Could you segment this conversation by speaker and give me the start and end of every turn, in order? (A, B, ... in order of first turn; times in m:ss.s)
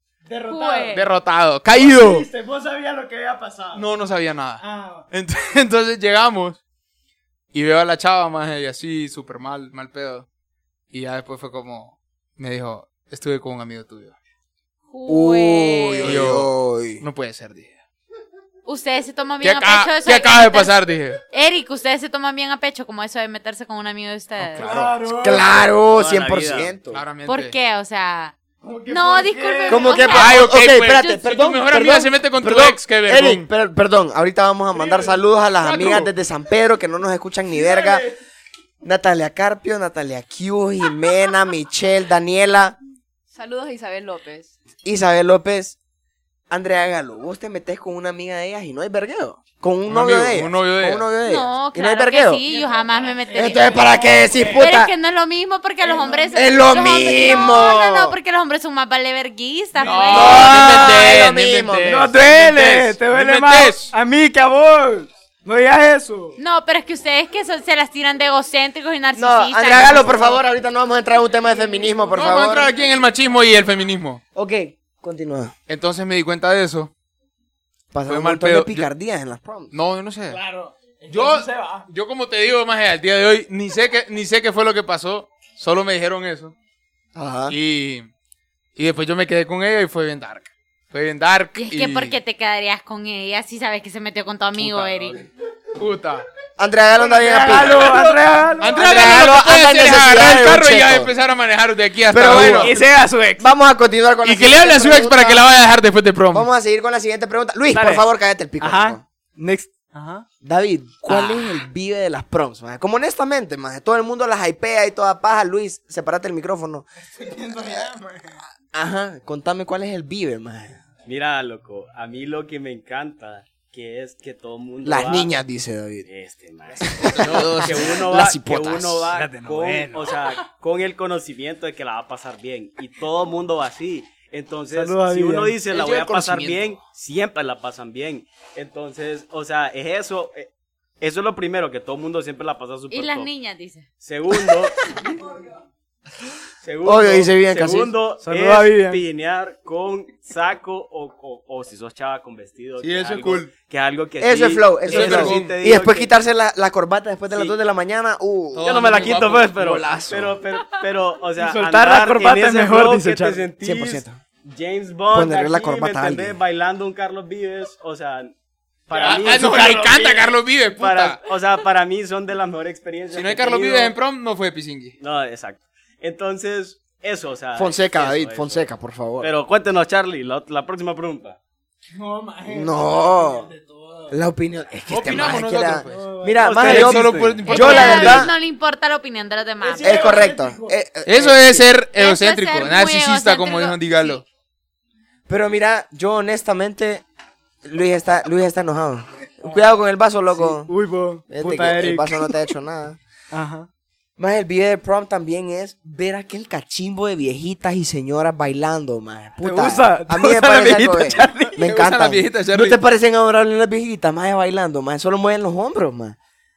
0:00.2-0:01.1 A
0:00.5-0:01.0 B
0:00.9-0:02.3 C
0:01.7-0:03.9 A
0:03.7-0:06.6 C
0:04.6-0:05.1 A
0:07.5-0:10.3 C
0:10.9-0:14.1 C
0:14.9-0:16.2 B
0:15.1-0:17.0 D
0:16.0-0:17.8 C
0:18.6-0:20.7 B
0:19.4-0:21.2 C
0:21.3-0:24.7 B
0:24.4-0:24.9 C
0:24.6-0:25.6 A
0:25.0-0:27.0 D
0:25.9-0:26.7 E
0:26.9-0:27.6 C
0:27.2-0:28.3 B
0:28.6-0:30.1 A
0:28.9-0:30.4 B
0:29.7-0:38.0 D
0:30.1-0:33.5 C
0:34.7-0:35.2 A
0:35.6-0:36.1 C
0:37.5-0:38.2 A
0:38.8-0:42.8 D
0:43.4-0:44.5 A
0:44.8-0:45.8 D
0:46.5-0:52.4 D
0:49.9-0:51.0 C
0:51.2-0:53.7 B
0:52.5-0:54.7 A
0:53.3-0:54.9 D
0:54.5-1:00.6 B
0:55.8-0:57.4 A
0:56.3-0:58.2 D
0:59.7-1:03.9 C
0:59.9-1:01.1 A
1:00.2-1:02.1 D
1:01.8-1:06.4 A
1:06.4-1:10.1 B
1:09.2-1:12.7 D
1:09.7-1:10.4 A
1:11.4-1:12.9 A
1:12.1-1:14.2 C
1:14.3-1:15.5 D
1:15.7-1:16.9 C
1:17.9-1:19.7 D
1:18.1-1:18.8 C
1:19.7-1:20.4 C
1:20.3-1:21.9 A
1:21.1-1:26.5 C
1:27.1-1:27.6 D
1:27.5-1:28.1 C
1:28.8-1:32.2 C
1:31.5-1:35.2 B
1:34.6-1:35.2 C
1:35.8-1:36.2 C
1:36.6-1:37.9 D
1:37.0-1:39.0 A
1:37.6-1:42.8 C
1:38.7-1:41.1 D
1:42.1-1:42.8 D
1:42.2-1:43.5 A
1:43.4-1:45.4 D
1:44.2-1:46.5 C
1:46.3-1:49.0 D
1:47.7-1:48.0 A
1:48.6-1:50.2 A
1:50.4-1:56.8 D
1:51.0-1:51.6 A
1:57.2-1:58.3 A
1:58.7-2:00.8 D
2:01.0-2:05.3 E
2:04.8-2:06.1 D
2:06.0-2:20.5 E
2:06.8-2:09.1 D
2:07.3-2:07.8 C
2:09.1-2:10.3 A
2:14.7-2:15.6 A
2:15.7-2:16.8 C
2:21.0-2:23.3 E
2:22.9-2:23.8 B
2:24.0-2:24.8 E
2:26.6-2:36.1 E
2:26.8-2:27.9 D
2:28.2-2:29.0 A
2:32.8-2:33.5 C
2:34.2-2:38.9 D
2:34.8-2:35.6 C
2:37.3-2:37.6 E
2:38.5-2:40.2 C
2:38.6-2:48.3 E
2:39.6-2:40.3 D
2:41.4-2:43.4 A
2:43.6-2:44.2 D
2:45.1-2:46.4 D
2:48.9-2:53.9 E
2:48.9-2:51.2 C
2:49.0-2:49.8 A
2:53.1-2:55.0 C
2:55.0-2:58.7 E
2:57.6-2:59.3 D
2:59.2-3:01.4 E
3:01.9-3:04.1 A
3:02.5-3:03.5 D
3:04.1-3:08.3 D
3:04.9-3:06.1 C
3:05.8-3:07.9 A
3:06.4-3:07.5 E
3:06.6-3:08.3 C
3:07.5-3:10.0 B
3:09.6-3:10.7 A
3:09.8-3:11.7 D
3:11.0-3:14.2 C
3:11.9-3:14.2 B
3:15.3-3:17.0 D
3:17.6-3:20.7 D
3:19.4-3:19.7 A
3:20.3-3:22.4 A
3:21.3-3:23.0 D
3:23.3-3:23.7 A
3:24.2-3:36.2 D
3:29.4-3:31.6 A
3:31.6-3:32.8 C